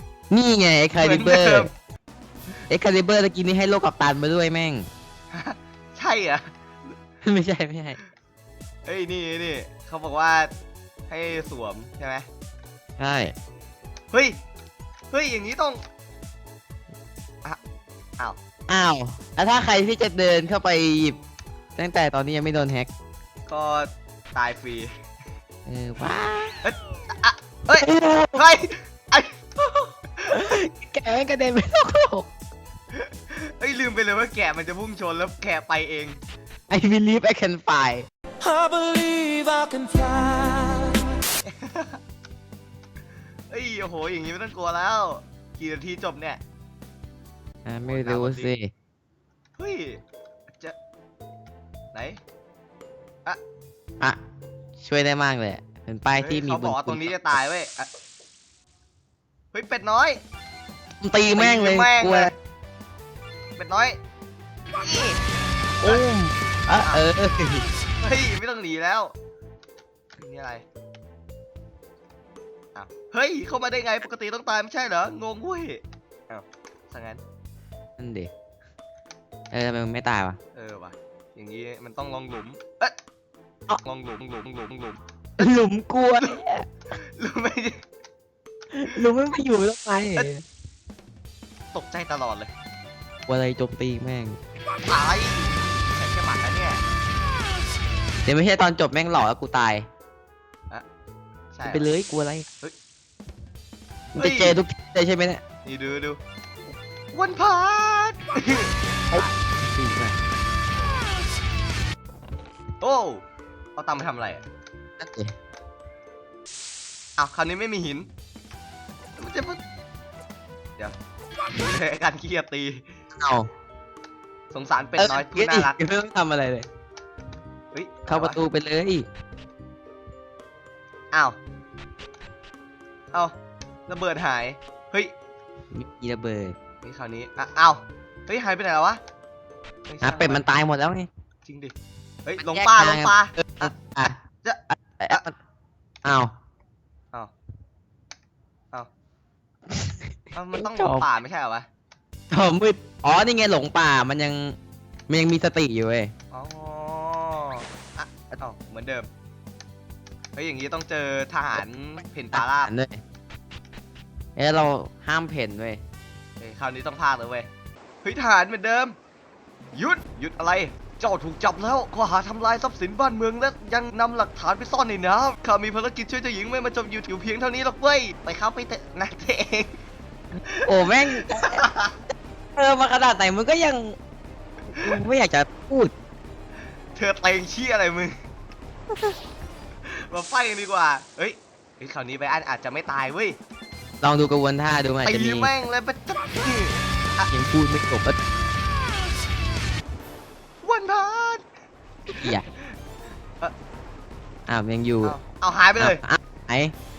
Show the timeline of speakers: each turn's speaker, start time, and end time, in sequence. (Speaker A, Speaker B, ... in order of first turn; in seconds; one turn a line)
Speaker A: 0.3-1.7
Speaker B: 1.0-1.7
Speaker A: 2.7-4.8
Speaker B: 5.3-6.9
Speaker A: 7.2-8.0
Speaker B: 8.8-10.5
Speaker B: 11.1-12.2
Speaker A: 13.0-13.3
Speaker B: 14.1-14.4
Speaker B: 15.1-15.8
Speaker A: 18.7-21.2
Speaker A: 21.8-22.9
Speaker B: 23.5-24.9
Speaker A: 25.6-26.6
Speaker B: 26.6-30.4
Speaker A: 27.8-28.4
Speaker A: 30.3-32.3
Speaker B: 32.9-36.2
Speaker A: 36.7-38.1
Speaker C: 38.4-41.1
Speaker B: 41.4-42.0
Speaker B: 43.5-46.4
Speaker A: 47.6-48.7
Speaker B: 47.9-48.5
Speaker B: 49.6-50.0
Speaker B: 51.9-52.2
Speaker A: 54.8-57.1
Speaker B: 56.2-57.9
Speaker B: 59.5-60.2
Speaker A: 61.0-62.3
Speaker B: 61.3-62.3
Speaker B: 63.6-64.0
Speaker B: 64.8-65.2
Speaker A: 65.8-67.6
Speaker B: 66.8-67.0
Speaker B: 68.0-69.1
Speaker B: 70.2-70.6
Speaker B: 72.7-77.2
Speaker A: 78.0-78.3
Speaker A: 79.5-80.4
Speaker B: 80.5-82.9
Speaker B: 83.8-85.5
Speaker A: 85.4-86.7
Speaker B: 86.9-87.8
Speaker A: 88.7-90.4
Speaker B: 91.7-92.5
Speaker A: 93.3-94.4
Speaker B: 94.9-96.8
Speaker A: 98.2-99.8
Speaker B: 101.5-101.9
Speaker A: 101.6-102.5
Speaker A: 104.2-105.4
Speaker B: 104.2-104.6
Speaker B: 105.6-106.2
Speaker B: 107.1-109.3
Speaker A: 109.1-110.2
Speaker B: 112.8-113.2
Speaker B: 113.8-114.4
Speaker A: 115.0-115.3
Speaker B: 117.2-118.1
Speaker B: 119.2-119.6
Speaker B: 121.5-122.9
Speaker A: 123.1-123.5
Speaker B: 124.5-125.8
Speaker A: 125.0-126.7
Speaker B: 127.7-128.4
Speaker A: 128.1-129.1
Speaker B: 131.1-131.4
Speaker B: 133.9-135.1
Speaker A: 135.7-136.6
Speaker B: 136.8-139.0
Speaker B: 139.9-140.4
Speaker A: 140.0-141.1
Speaker B: 141.4-141.7
Speaker B: 142.2-143.7
Speaker A: 142.4-144.2
Speaker B: 144.4-145.2
Speaker A: 144.7-145.3
Speaker A: 146.0-146.3
Speaker B: 150.3-151.7
Speaker A: 150.6-151.1
Speaker A: 152.3-154.6
Speaker A: 155.1-156.1
Speaker B: 156.3-159.1
Speaker B: 160.3-162.7
Speaker A: 162.3-163.0
Speaker A: 164.3-165.8
Speaker B: 166.4-167.5
Speaker B: 168.0-168.9
Speaker B: 169.7-179.8
Speaker B: 180.6-182.0
Speaker A: 180.6-181.6
Speaker A: 182.6-183.9
Speaker A: 184.7-185.9
Speaker B: 186.9-188.2
Speaker B: 189.8-193.4
Speaker A: 194.0-195.5
Speaker B: 195.0-197.3
Speaker A: 197.3-198.2
Speaker B: 200.6-201.4
Speaker A: 202.2-202.5
Speaker A: 204.5-205.2
Speaker B: 205.0-206.0
Speaker A: 205.8-206.7